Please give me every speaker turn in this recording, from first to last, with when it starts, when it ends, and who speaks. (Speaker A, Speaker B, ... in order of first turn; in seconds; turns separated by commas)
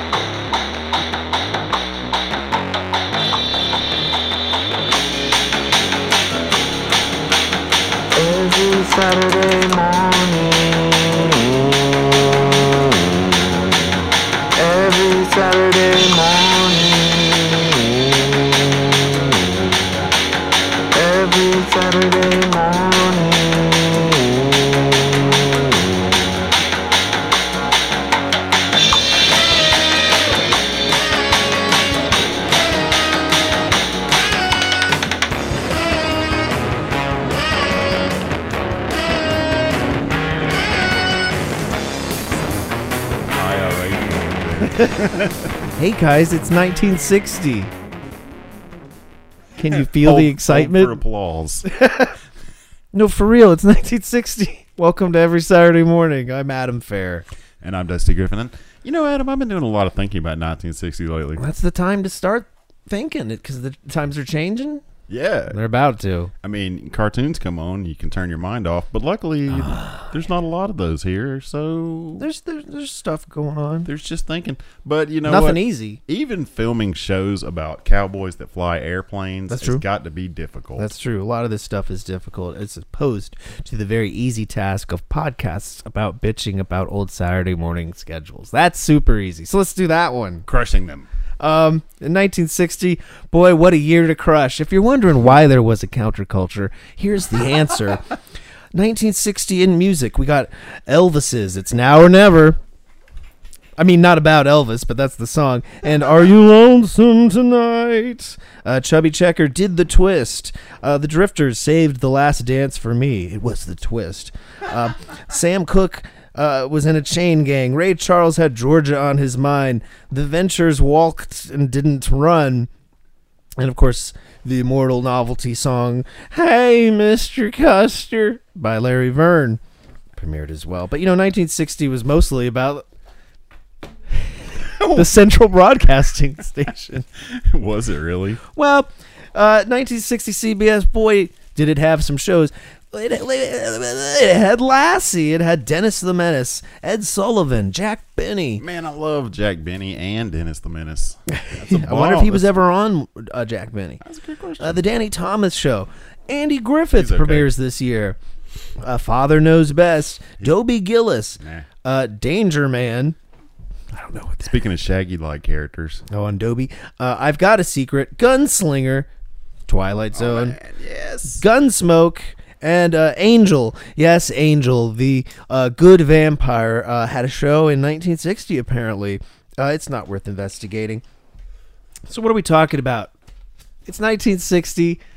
Speaker A: 8.1-11.8, Speaker A: 14.6-17.9, Speaker A: 20.9-24.4, Speaker B: 43.2-45.5, Speaker C: 44.6-45.0, Speaker C: 45.8-47.7, Speaker C: 49.6-51.0, Speaker B: 49.6-51.7, Speaker C: 51.7-52.2, Speaker C: 52.9-57.3, Speaker B: 57.6-61.4, Speaker C: 61.4-64.8, Speaker B: 65.1-65.6, Speaker C: 65.5-66.3, Speaker B: 66.4-72.3, Speaker C: 69.5-70.1, Speaker C: 72.2-73.9, Speaker B: 73.8-80.9, Speaker C: 75.2-76.0, Speaker C: 79.5-79.8, Speaker C: 80.8-90.5, Speaker B: 90.5-91.1, Speaker C: 91.4-98.2, Speaker C: 98.7-102.6, Speaker C: 103.8-122.7, Speaker C: 123.6-129.6, Speaker C: 130.2-132.9, Speaker C: 134.2-137.1, Speaker B: 134.8-135.1, Speaker B: 137.2-138.4, Speaker C: 138.5-148.6, Speaker B: 148.6-152.6, Speaker C: 151.3-154.0, Speaker B: 154.0-154.8, Speaker C: 154.6-158.2, Speaker B: 156.9-157.5, Speaker C: 158.8-163.2, Speaker B: 161.4-161.7, Speaker C: 163.9-164.6, Speaker B: 164.4-166.1, Speaker C: 166.1-169.1, Speaker C: 169.7-170.6, Speaker B: 170.1-171.4, Speaker C: 171.4-181.0, Speaker C: 182.1-183.1, Speaker C: 183.9-185.0